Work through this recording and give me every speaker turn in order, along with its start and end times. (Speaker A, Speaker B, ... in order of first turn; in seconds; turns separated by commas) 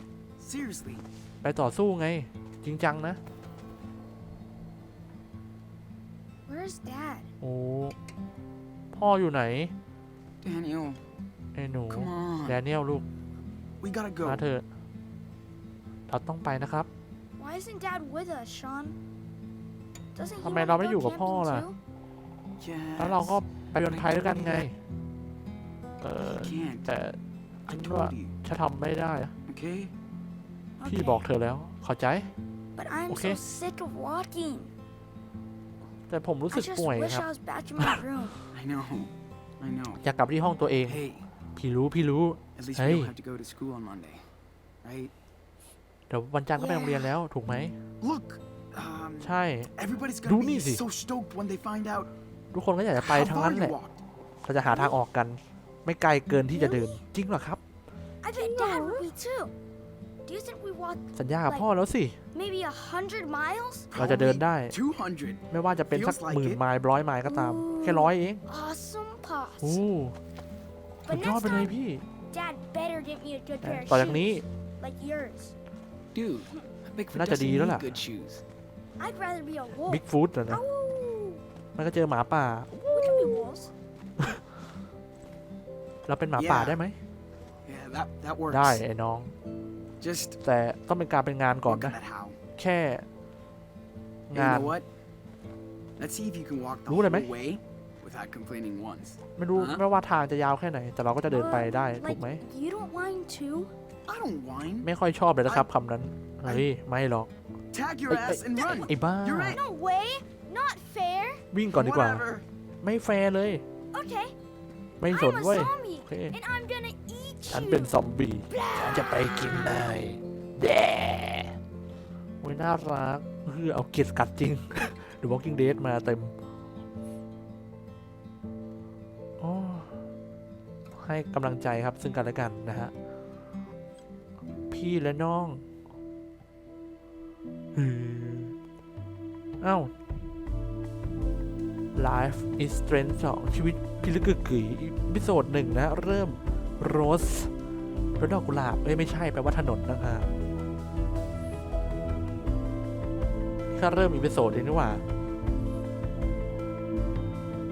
Speaker A: 0.4-1.0, Speaker B: 1.4-3.2, Speaker C: 6.5-7.3, Speaker B: 7.4-8.0, Speaker B: 8.9-9.7, Speaker A: 10.4-11.0, Speaker B: 11.5-13.1, Speaker A: 11.9-12.6, Speaker A: 13.8-14.4, Speaker B: 14.2-14.6, Speaker B: 16.1-16.9, Speaker C: 17.4-19.0, Speaker C: 20.1-21.8, Speaker B: 20.4-21.7, Speaker A: 22.6-24.6, Speaker B: 23.0-24.8, Speaker B: 26.0-27.2, Speaker A: 26.2-26.9, Speaker A: 27.7-28.3, Speaker B: 27.7-29.3, Speaker A: 29.5-29.9, Speaker C: 30.8-31.3, Speaker B: 30.8-32.3, Speaker C: 32.8-34.7, Speaker B: 33.1-33.4, Speaker B: 36.1-38.0, Speaker C: 36.5-38.4, Speaker A: 38.5-40.0, Speaker B: 40.0-41.0, Speaker A: 40.9-41.3, Speaker B: 41.5-43.1, Speaker A: 42.5-44.3, Speaker A: 44.8-45.1, Speaker B: 46.1-47.8, Speaker C: 46.5-47.1, Speaker A: 48.0-52.1, Speaker B: 49.2-49.7, Speaker B: 50.2-50.8, Speaker B: 52.5-53.8, Speaker A: 52.9-54.0, Speaker B: 54.4-57.6, Speaker C: 54.7-55.0, Speaker C: 56.5-57.0, Speaker C: 58.2-59.5, Speaker B: 58.5-59.0, Speaker C: 60.2-61.7, Speaker B: 61.1-62.2, Speaker C: 62.3-63.9, Speaker A: 63.9-66.6, Speaker B: 63.9-64.8, Speaker B: 65.5-68.4, Speaker C: 67.2-69.8, Speaker B: 69.6-70.2, Speaker C: 71.0-71.8, Speaker B: 71.1-72.0, Speaker C: 72.3-75.5, Speaker B: 73.6-74.4, Speaker A: 76.1-78.4, Speaker B: 77.1-77.9, Speaker C: 79.0-81.4, Speaker B: 79.8-80.6, Speaker B: 81.7-82.7, Speaker C: 82.7-83.7, Speaker B: 86.1-87.0, Speaker A: 86.4-86.8, Speaker A: 87.6-88.8, Speaker B: 88.5-89.3, Speaker A: 90.0-90.4, Speaker B: 90.4-92.0, Speaker A: 91.7-92.4, Speaker B: 92.5-93.1, Speaker B: 94.3-94.8, Speaker A: 94.3-94.8, Speaker A: 96.0-99.8, Speaker B: 96.9-97.3, Speaker B: 99.4-102.4, Speaker C: 101.3-103.7, Speaker A: 104.0-104.9, Speaker B: 104.8-107.3, Speaker A: 107.7-109.6, Speaker B: 108.1-109.6, Speaker C: 108.5-108.9, Speaker C: 109.4-111.4, Speaker B: 111.5-112.2, Speaker A: 111.7-112.5, Speaker B: 112.8-113.6, Speaker C: 113.9-114.3, Speaker B: 115.0-116.4, Speaker C: 115.0-119.5, Speaker B: 117.5-121.6, Speaker B: 122.4-126.3, Speaker B: 129.4-129.9, Speaker B: 130.9-132.9, Speaker B: 134.7-135.6, Speaker B: 137.7-138.6, Speaker B: 139.6-139.9, Speaker B: 141.9-147.5, Speaker B: 148.2-150.3, Speaker B: 153.7-155.0